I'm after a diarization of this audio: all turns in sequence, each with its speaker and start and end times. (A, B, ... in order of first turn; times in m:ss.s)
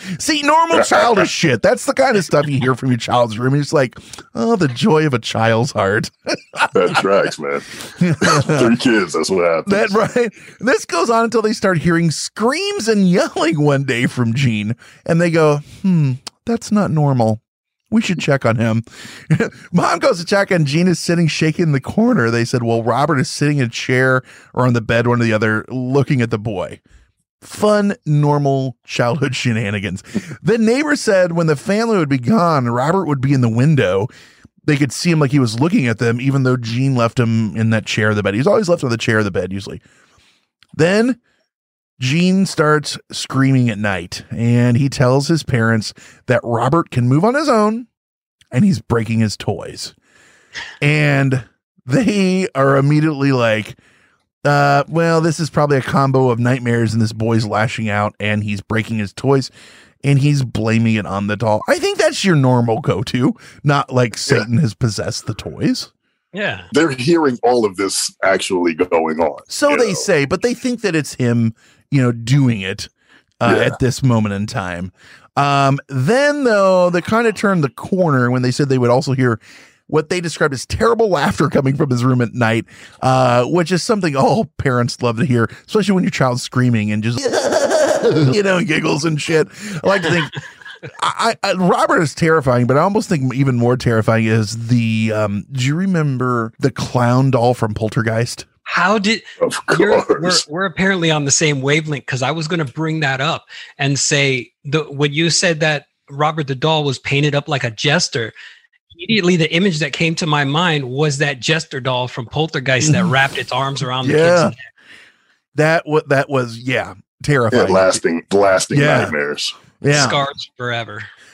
0:00.1-0:07.0 A
0:06.7-0:09.9 B
0:08.0-0:08.7 A
0:09.6-0:26.8 A
0:27.4-0:34.1 A
0:34.6-0:39.8 A
0:40.7-0:41.2 A
0:42.0-0:47.9 A
0:48.5-0:49.9 A
0:50.8-0:53.8 A
0:54.4-0:59.5 A
1:00.0-1:05.9 A
1:06.3-1:06.7 C
1:06.7-1:10.0 B
1:09.5-1:12.9 A
1:13.4-1:30.4 A
1:13.4-1:13.8 B
1:30.9-1:38.5 A
1:38.6-1:48.3 C
1:39.4-1:40.4 B
1:48.9-1:54.7 C
1:54.0-1:54.5 A
1:55.5-1:58.0 A
1:57.5-1:59.6 B
1:58.7-1:59.1 A
1:59.8-2:00.2 A
1:59.9-2:01.1 C